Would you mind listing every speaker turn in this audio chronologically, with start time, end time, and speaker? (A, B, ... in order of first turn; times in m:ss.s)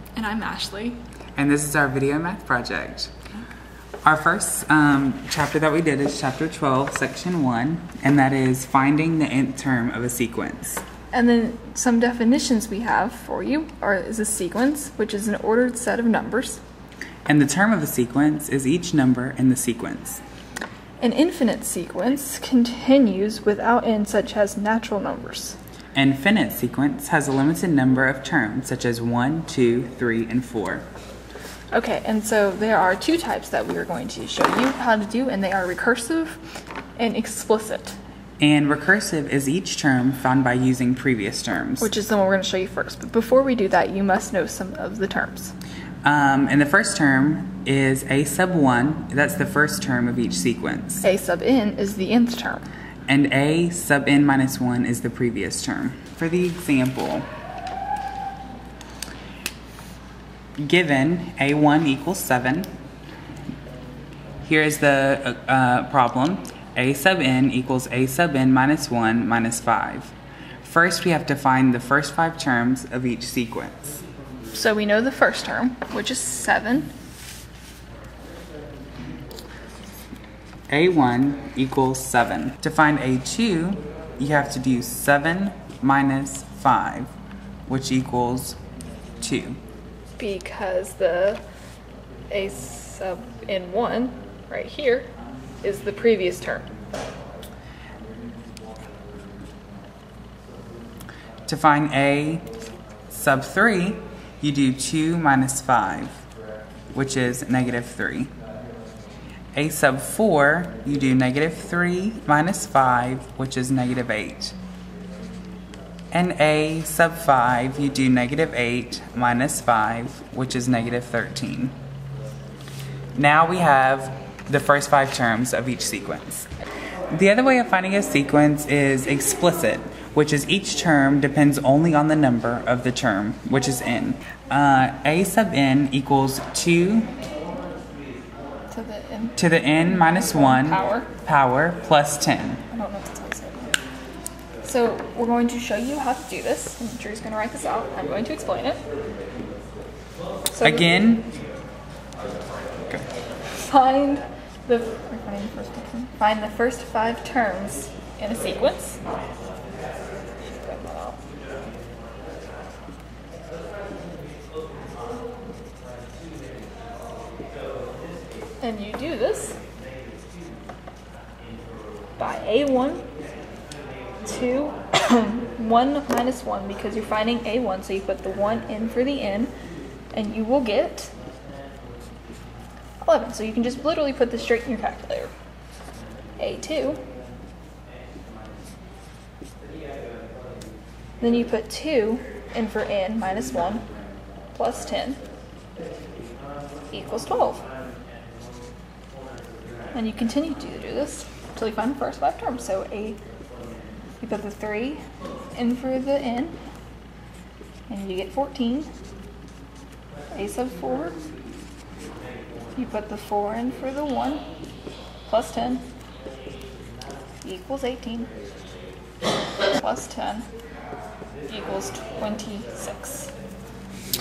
0:00.2-0:01.0 A
0:01.4-0:03.1 B
0:04.0-0:10.8 B
0:11.1-0:16.6 A
0:17.3-0:20.2 B
0:21.0-0:25.6 A
0:25.9-0:30.8 B
0:31.7-0:36.4 A
0:37.0-0:38.0 A
0:38.4-0:41.9 B
0:41.8-0:45.5 A
0:46.0-0:51.0 B
0:51.0-0:52.6 A
0:53.1-0:57.2 B
1:00.6-1:02.7 B
1:04.4-1:14.0 B
1:14.5-1:16.9 A
1:20.7-1:27.1 B
1:27.7-1:28.6 B
1:29.2-1:29.6 B
1:30.2-1:31.4 A
1:32.3-1:35.1 A
1:35.6-1:36.7 A
1:41.5-1:42.5 B
1:43.1-1:46.2 B
1:46.9-1:48.3 B
1:49.5-1:54.5 B
1:56.1-2:01.7 B
2:03.1-2:06.5 B
2:07.1-2:17.1 B
2:18.7-2:21.1 A
2:19.4-2:22.6 B
2:22.7-2:23.8 A
2:24.6-2:28.8 A
2:30.5-2:30.9 A
2:30.6-2:31.3 B
2:33.5-2:39.0 A
2:40.4-2:41.2 A
2:48.6-2:49.6 A
2:52.2-2:53.0 A
2:54.2-2:59.5 A
3:00.1-3:01.1 A
3:03.0-3:05.3 A
3:06.4-3:07.0 A
3:11.2-3:13.8 A
3:14.5-3:15.2 A
3:16.9-3:17.6 A
3:19.9-3:23.2 A
3:24.2-3:25.0 A
3:25.5-3:26.6 A
3:27.9-3:28.9 A
3:30.3-3:31.2 A
3:32.7-3:34.4 A
3:35.2-3:35.8 A
3:37.4-3:38.3 A
3:39.8-3:40.4 A
3:41.5-3:43.3 A